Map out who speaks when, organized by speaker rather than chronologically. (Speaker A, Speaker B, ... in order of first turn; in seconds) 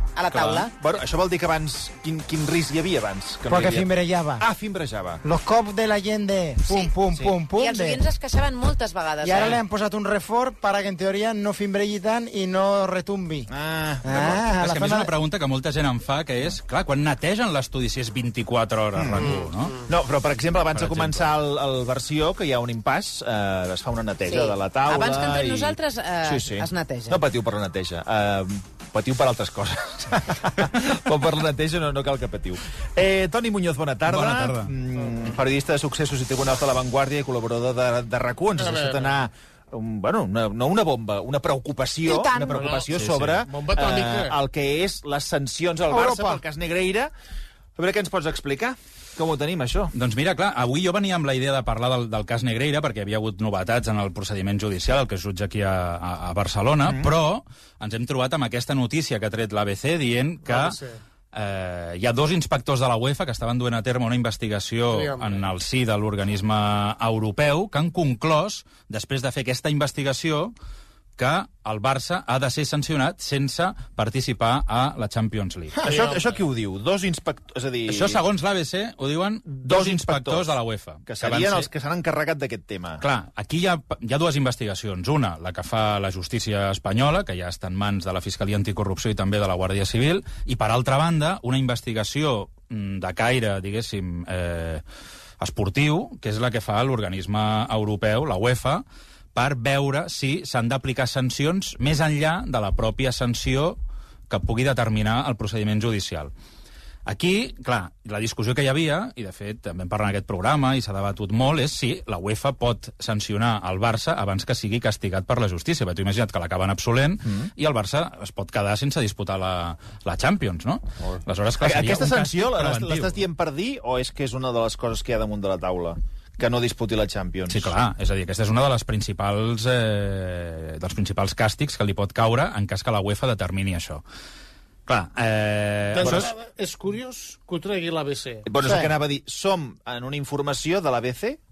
Speaker A: 0.1-0.7, 6.6-7.0, 7.5-9.6, 24.2-27.2
Speaker B: 0.3-5.2, 7.1-7.4, 13.5-14.4, 18.9-47.1, 47.8-49.9, 56.8-57.1, 75.8-78.2, 79.5-83.0, 117.2-117.5, 121.6-127.7, 136.0-136.3, 138.4-141.4
Speaker C: 3.5-4.5, 5.2-8.0, 9.2-13.5, 14.0-15.1, 42.0-42.7, 45.9-46.4, 138.6-138.9
Speaker D: 14.6-19.7, 20.7-21.3, 34.1-34.7, 42.9-43.4, 49.9-60.8, 61.3-70.5, 71.2-75.8, 77.9-81.7, 83.0-94.8, 95.4-98.8, 99.3-103.8, 104.3-106.3, 107.0-123.2, 127.5-134.0, 134.9-136.3
Speaker E: 19.1-19.9, 38.6-39.1, 42.3-44.4, 60.4-61.0, 64.9-65.5, 75.8-76.2, 135.9-138.4